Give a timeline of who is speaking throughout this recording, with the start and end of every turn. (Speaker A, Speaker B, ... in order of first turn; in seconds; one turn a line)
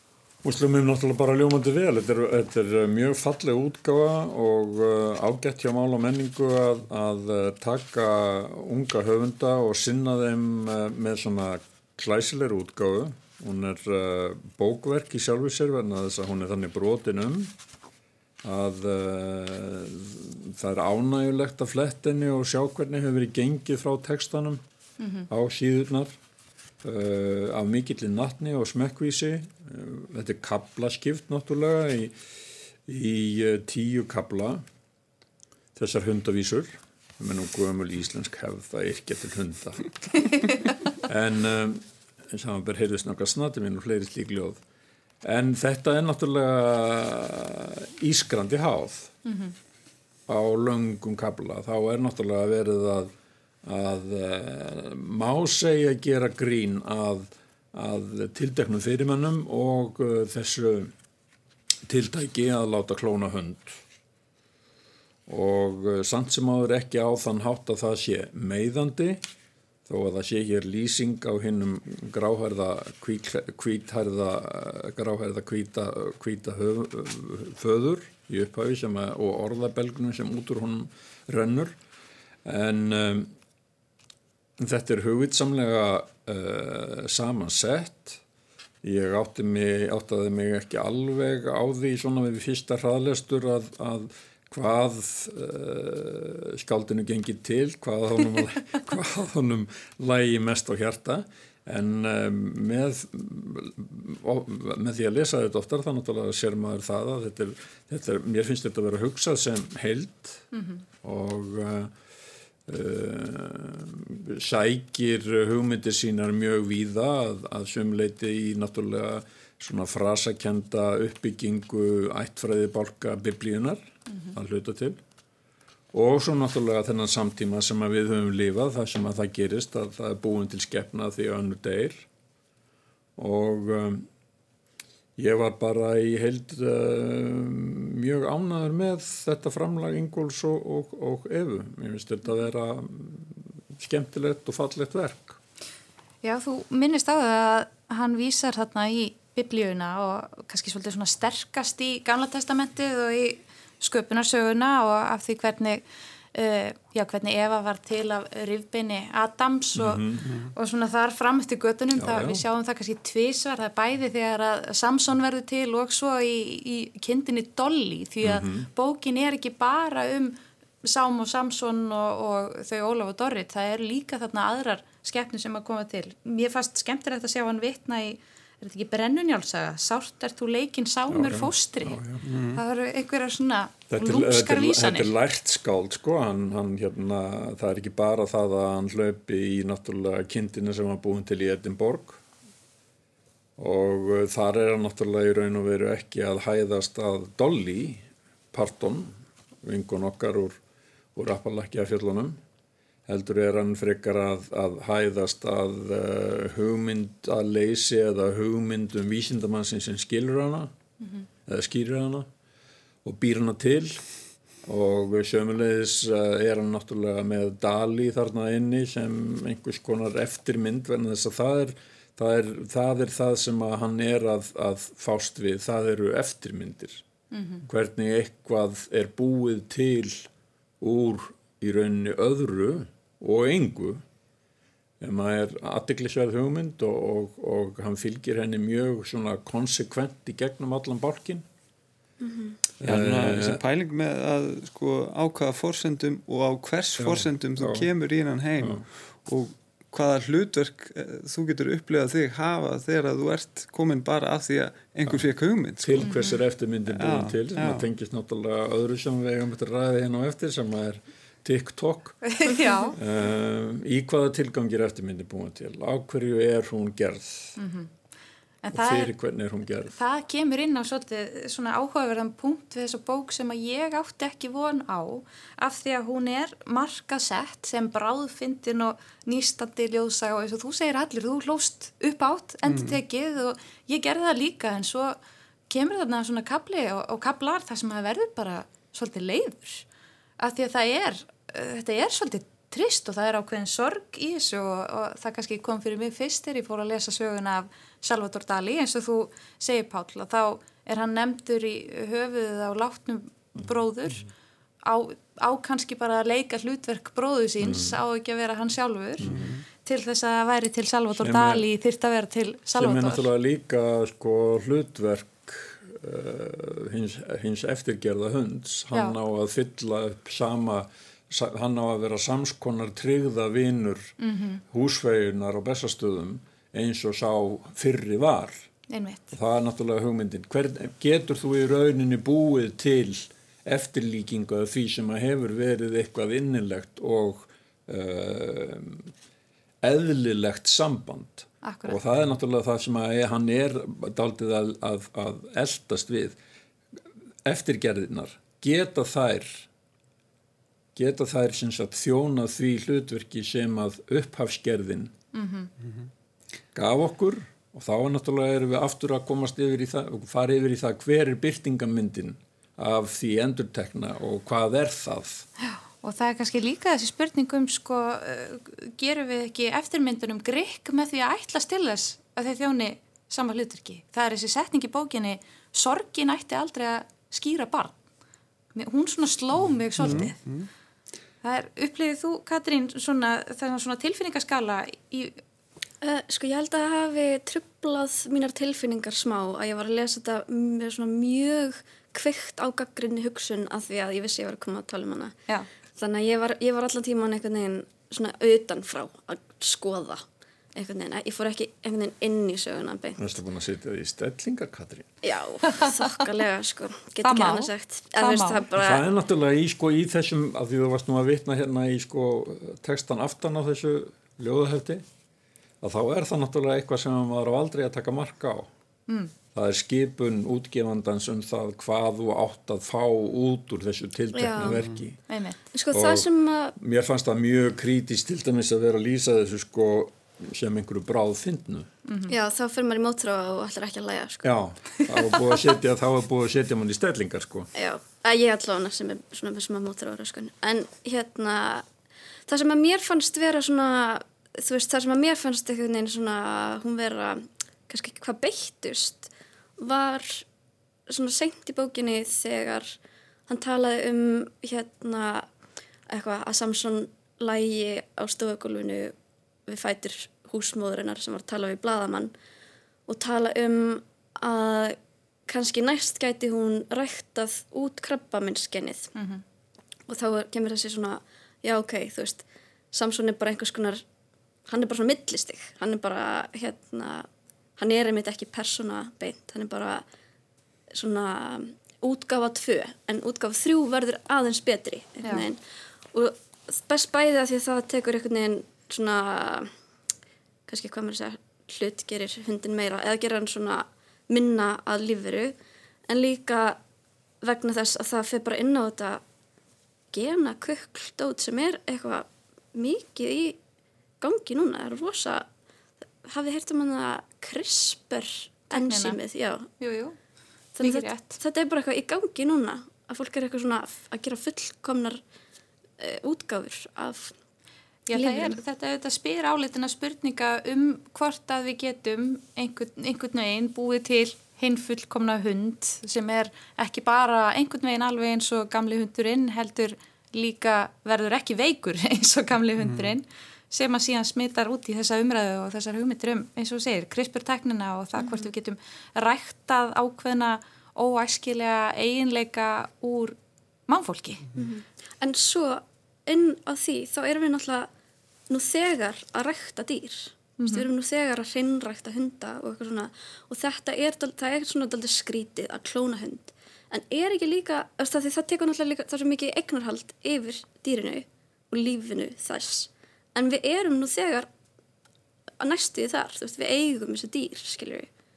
Speaker A: 0.4-17.5
Speaker A: 18.4-24.6
Speaker B: 25.0-25.3
Speaker A: 25.3-26.1
Speaker A: 26.8-32.2
Speaker A: 32.8-34.6
Speaker A: 35.8-40.2
Speaker A: 41.0-44.6
Speaker A: 45.2-49.1
Speaker B: 49.2-49.5
Speaker A: 50.3-53.1
Speaker A: 53.6-60.9
Speaker A: 61.9-63.8
Speaker A: 65.3-69.2
Speaker A: 69.8-81.8
Speaker A: 82.4-83.3
Speaker A: 84.6-88.2
Speaker A: 88.8-110.5
Speaker B: 110.5-110.8
Speaker A: 111.0-111.9
Speaker A: 112.7-125.0
Speaker A: 125.9-132.1
Speaker A: 133.2-134.1
Speaker A: 135.2-145.4
Speaker B: 146.2-182.0
Speaker A: 159.7-160.2
Speaker C: 160.2-160.5
Speaker A: 161.9-162.4
Speaker A: 168.2-168.7
Speaker A: 181.1-182.2
Speaker C: 182.2-182.6
Speaker B: 182.5-185.1
Speaker A: 183.9-192.2
Speaker A: 193.6-200.6
Speaker A: 201.2-202.4
Speaker A: 203.1-210.7
Speaker A: 211.4-212.3
Speaker A: 213.0-214.0
Speaker A: 214.6-227.0
Speaker B: 227.3-227.6
Speaker A: 227.7-230.3
Speaker A: 230.8-234.0
Speaker A: 235.0-241.4
Speaker D: 242.2-242.6
Speaker A: 242.8-243.6
Speaker C: 242.8-256.1
Speaker A: 247.0-247.9
Speaker A: 255.8-262.2
Speaker B: 256.0-256.4
Speaker C: 256.9-257.9
Speaker B: 262.2-263.0
Speaker A: 262.9-267.6
Speaker B: 267.6-267.9
Speaker B: 268.6-269.1
Speaker A: 268.7-269.9
Speaker B: 269.9-285.2
Speaker C: 282.6-283.0
Speaker B: 285.7-289.9
Speaker B: 290.4-304.3
Speaker B: 304.8-313.3
Speaker A: 307.6-308.0
Speaker A: 309.2-309.5
Speaker C: 309.2-309.6
Speaker A: 311.2-311.7
Speaker A: 312.7-324.1
Speaker B: 324.2-324.6
Speaker A: 324.7-328.7
Speaker B: 328.9-329.3
Speaker A: 329.3-339.1
Speaker A: 339.8-346.4
Speaker B: 341.6-342.0
Speaker A: 347.4-349.7
Speaker A: 350.9-355.1
Speaker B: 355.3-355.7
Speaker A: 356.7-365.4
Speaker B: 365.6-378.0
Speaker B: 378.7-380.4
Speaker C: 380.0-380.7
Speaker A: 380.0-380.3
Speaker B: 381.4-385.4
Speaker D: 386.0-395.4
Speaker D: 396.0-400.2
Speaker D: 400.7-403.2
Speaker A: 403.2-405.1
Speaker D: 405.2-409.0
Speaker B: 405.6-406.2
Speaker B: 407.2-408.6
Speaker A: 408.8-415.0
Speaker A: 415.8-418.7
Speaker A: 419.5-425.2
Speaker D: 424.3-424.8
Speaker C: 424.6-425.0
Speaker B: 425.3-425.6
Speaker D: 425.7-426.8
Speaker A: 425.9-431.9
Speaker B: 432.1-432.3
Speaker D: 432.3-434.5
Speaker A: 434.4-437.7
Speaker D: 437.7-441.9
Speaker D: 442.5-450.4
Speaker D: 451.1-452.9
Speaker D: 453.5-455.5
Speaker D: 456.1-459.1
Speaker D: 459.7-462.3
Speaker D: 463.1-469.1
Speaker B: 469.1-469.4
Speaker D: 470.1-474.0
Speaker D: 474.7-480.0
Speaker D: 480.9-485.6
Speaker D: 486.1-489.7
Speaker D: 490.7-495.5
Speaker D: 496.1-496.8
Speaker D: 497.4-499.2
Speaker D: 500.1-503.6
Speaker D: 504.2-505.4
Speaker D: 506.2-509.7
Speaker B: 508.7-509.2
Speaker B: 509.8-510.1
Speaker D: 510.8-515.2
Speaker B: 510.8-511.4
Speaker D: 516.0-517.3
Speaker B: 518.1-543.4
Speaker D: 518.1-518.6
Speaker C: 532.8-533.1
Speaker D: 538.2-538.5
Speaker B: 543.9-544.4
Speaker D: 544.5-547.9
Speaker D: 548.5-564.5
Speaker B: 550.6-550.9
Speaker D: 565.6-568.1